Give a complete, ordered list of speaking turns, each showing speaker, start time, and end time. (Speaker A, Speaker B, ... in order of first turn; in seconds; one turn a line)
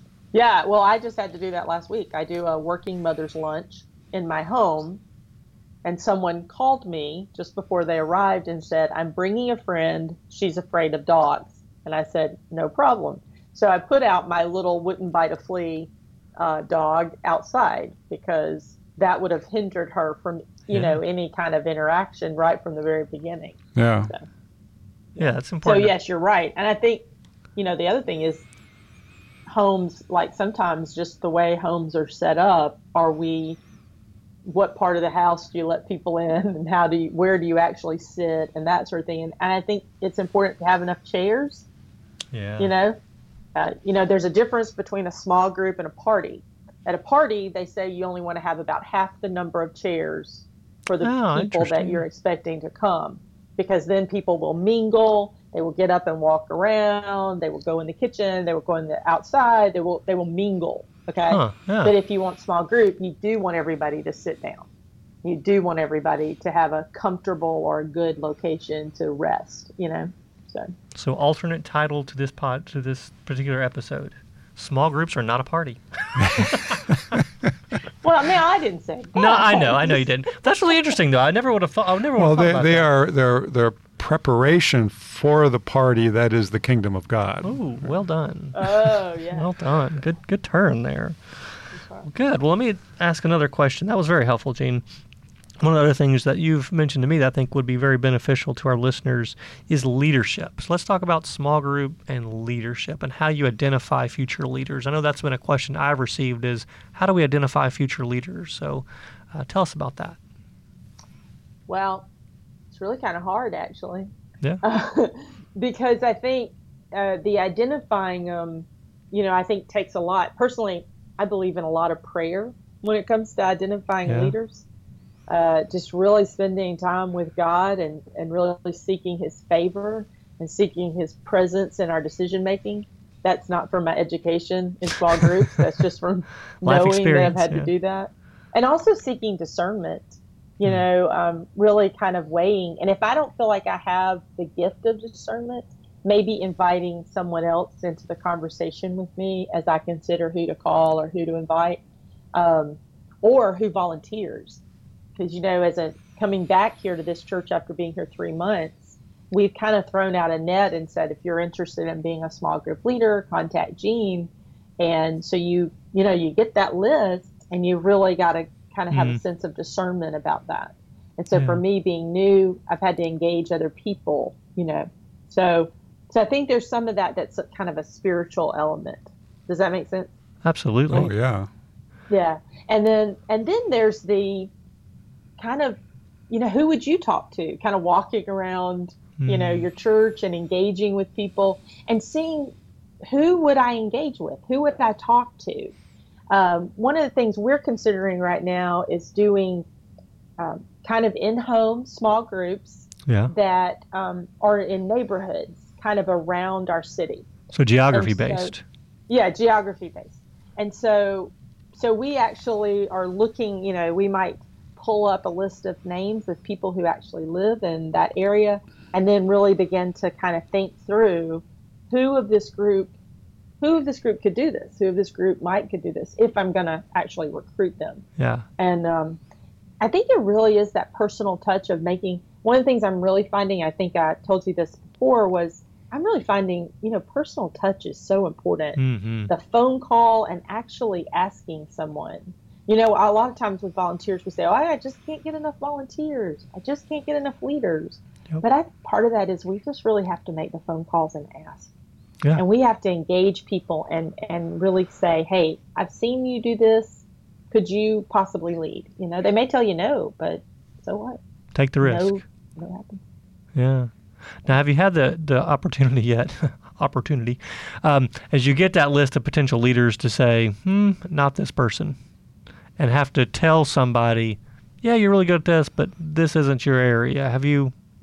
Speaker A: 0.3-5.0
Speaker A: 5.8-24.2
Speaker B: 20.7-21.0
Speaker C: 23.7-24.1
Speaker B: 25.2-25.9
Speaker A: 25.2-27.0
Speaker A: 27.6-28.4
Speaker A: 29.5-33.6
Speaker A: 34.5-41.7
Speaker B: 42.3-42.7
Speaker A: 42.6-43.0
Speaker A: 43.5-64.7
Speaker B: 51.0-52.0
Speaker B: 61.3-61.9
Speaker A: 65.2-70.7
Speaker B: 70.9-77.2
Speaker C: 76.2-76.5
Speaker A: 78.0-80.1
Speaker B: 79.2-82.9
Speaker C: 82.2-87.6
Speaker B: 87.4-88.7
Speaker A: 88.5-89.5
Speaker B: 89.3-91.5
Speaker A: 91.7-92.0
Speaker B: 92.0-94.8
Speaker B: 95.6-110.2
Speaker A: 111.7-112.1
Speaker A: 112.7-114.1
Speaker A: 114.6-124.6
Speaker B: 124.0-124.3
Speaker A: 125.3-151.8
Speaker B: 135.1-135.5
Speaker B: 136.6-137.7
Speaker A: 152.3-154.6
Speaker A: 155.2-180.1
Speaker B: 168.9-169.2
Speaker B: 171.3-171.6
Speaker B: 180.4-181.1
Speaker C: 180.9-181.5
Speaker A: 182.1-184.5
Speaker A: 185.4-185.8
Speaker A: 186.3-195.7
Speaker B: 189.2-189.7
Speaker A: 196.3-199.7
Speaker A: 200.4-207.3
Speaker B: 203.1-203.3
Speaker B: 207.5-208.6
Speaker A: 207.9-208.5
Speaker A: 209.1-222.9
Speaker A: 223.6-228.1
Speaker B: 228.2-228.4
Speaker A: 228.6-229.2
Speaker A: 229.8-251.7
Speaker B: 238.8-239.3
Speaker A: 252.3-261.2
Speaker B: 261.5-262.2
Speaker A: 261.8-263.0
Speaker B: 263.5-272.0
Speaker B: 272.8-277.7